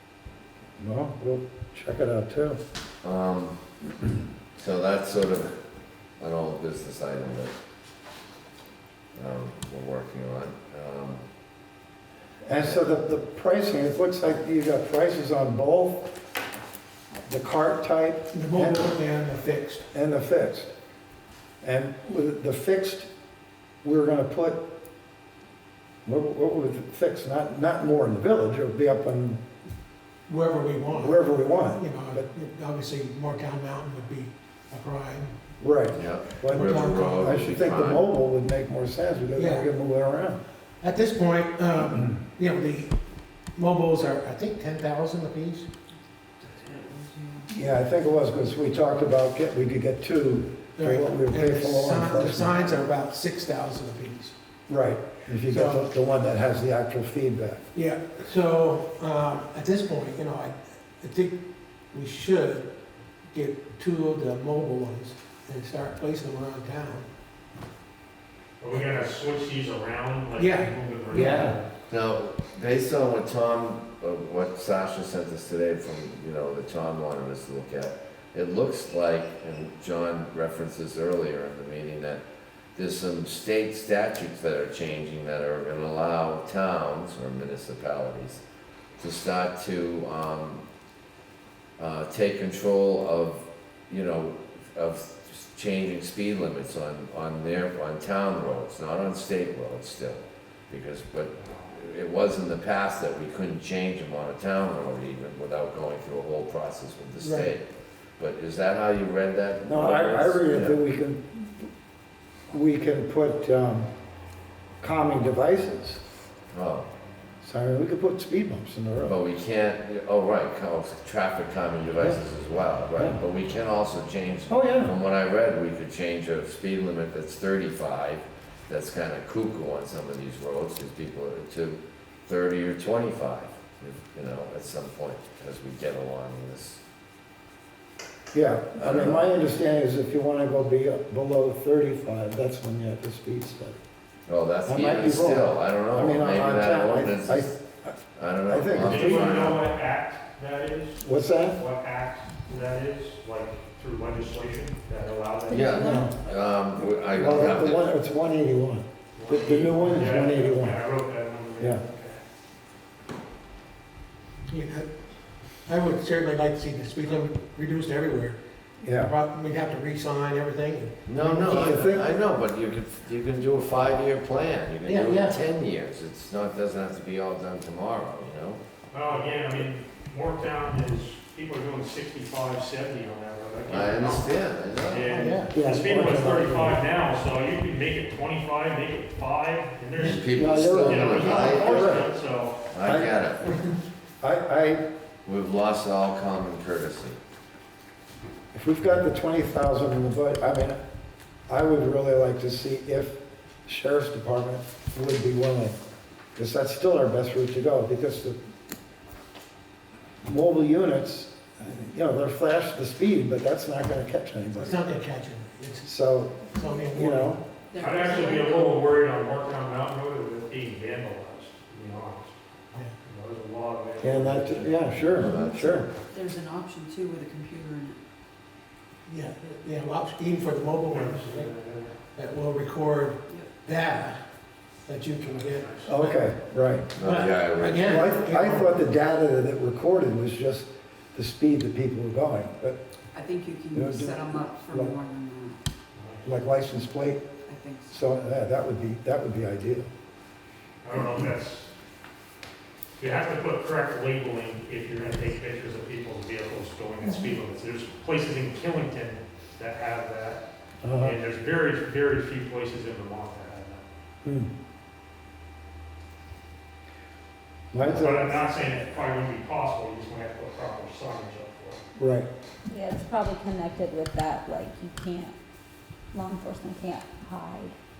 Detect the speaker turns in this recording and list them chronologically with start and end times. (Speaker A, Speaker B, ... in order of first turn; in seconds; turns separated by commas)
Speaker A: 0.8-2.6, Speaker B: 3.0-3.6, Speaker B: 4.5-5.5, Speaker B: 6.2-7.5, Speaker B: 9.2-11.2, Speaker A: 12.4-16.1, Speaker A: 17.2-18.9, Speaker C: 18.3-19.9, Speaker A: 19.9-20.7, Speaker A: 21.6-23.1, Speaker A: 23.8-24.6, Speaker A: 26.1-29.4, Speaker C: 30.3-35.3, Speaker A: 30.9-32.2, Speaker A: 35.6-40.4, Speaker B: 35.9-38.1, Speaker C: 36.5-37.4, Speaker C: 39.4-39.7, Speaker C: 40.8-42.9, Speaker C: 43.5-45.7, Speaker D: 46.4-47.5, Speaker A: 47.5-52.6, Speaker C: 50.8-54.3, Speaker A: 54.7-57.6, Speaker C: 55.5-55.9, Speaker C: 57.7-61.4, Speaker C: 61.9-62.7, Speaker C: 63.3-67.1, Speaker E: 68.6-71.7, Speaker C: 70.3-71.4, Speaker A: 71.1-71.5, Speaker B: 71.9-82.2, Speaker B: 82.7-88.4, Speaker B: 89.0-90.6, Speaker B: 91.8-107.6, Speaker E: 101.4-101.7, Speaker C: 107.2-107.5, Speaker B: 108.2-110.8, Speaker A: 109.6-111.7, Speaker A: 112.5-113.9, Speaker A: 114.8-116.0, Speaker B: 116.5-116.9, Speaker A: 117.4-119.2, Speaker B: 119.0-136.8, Speaker A: 124.5-125.0, Speaker A: 138.3-143.8, Speaker B: 138.8-139.3, Speaker B: 144.3-147.6, Speaker A: 144.7-147.9, Speaker B: 148.1-149.6, Speaker A: 148.5-149.4, Speaker E: 148.8-155.7, Speaker A: 151.0-151.6, Speaker F: 155.5-156.1, Speaker B: 155.5-157.9, Speaker A: 155.7-156.1, Speaker A: 157.1-160.8, Speaker E: 159.2-162.2, Speaker C: 164.5-164.9, Speaker C: 165.7-168.4, Speaker A: 168.8-169.1, Speaker C: 169.0-171.7, Speaker B: 171.1-178.6, Speaker A: 171.4-172.1, Speaker C: 174.8-175.4, Speaker E: 178.9-192.6, Speaker B: 183.7-185.3, Speaker C: 185.1-185.5, Speaker A: 185.5-186.8, Speaker B: 190.0-192.1, Speaker A: 190.3-192.1, Speaker B: 192.7-193.6, Speaker A: 192.8-193.1, Speaker A: 194.2-194.8, Speaker B: 195.2-197.2, Speaker A: 198.5-200.8, Speaker A: 201.5-205.8, Speaker A: 206.3-208.4, Speaker A: 210.2-214.8, Speaker C: 214.5-215.9, Speaker A: 215.8-217.4, Speaker C: 216.5-217.4, Speaker D: 217.7-218.9, Speaker E: 217.7-222.4, Speaker E: 223.0-226.0, Speaker A: 224.0-225.9, Speaker B: 225.2-225.9, Speaker D: 226.1-228.0, Speaker C: 229.1-231.5, Speaker E: 230.9-231.9, Speaker C: 232.1-234.2, Speaker D: 233.3-233.6, Speaker C: 234.8-236.2, Speaker E: 235.2-235.9, Speaker A: 235.8-236.9, Speaker B: 236.9-238.2, Speaker C: 237.0-238.8, Speaker A: 237.8-242.8, Speaker D: 243.1-245.6, Speaker A: 243.7-244.9, Speaker E: 245.9-246.3, Speaker A: 246.2-247.2, Speaker D: 247.4-248.0, Speaker A: 247.9-249.9, Speaker E: 250.8-251.7, Speaker E: 253.0-260.4, Speaker F: 257.0-257.3, Speaker A: 260.8-261.2, Speaker E: 261.0-263.8, Speaker A: 264.2-264.5, Speaker A: 267.7-268.8, Speaker E: 267.8-271.8, Speaker A: 272.0-272.3, Speaker F: 272.7-275.4, Speaker F: 276.1-277.7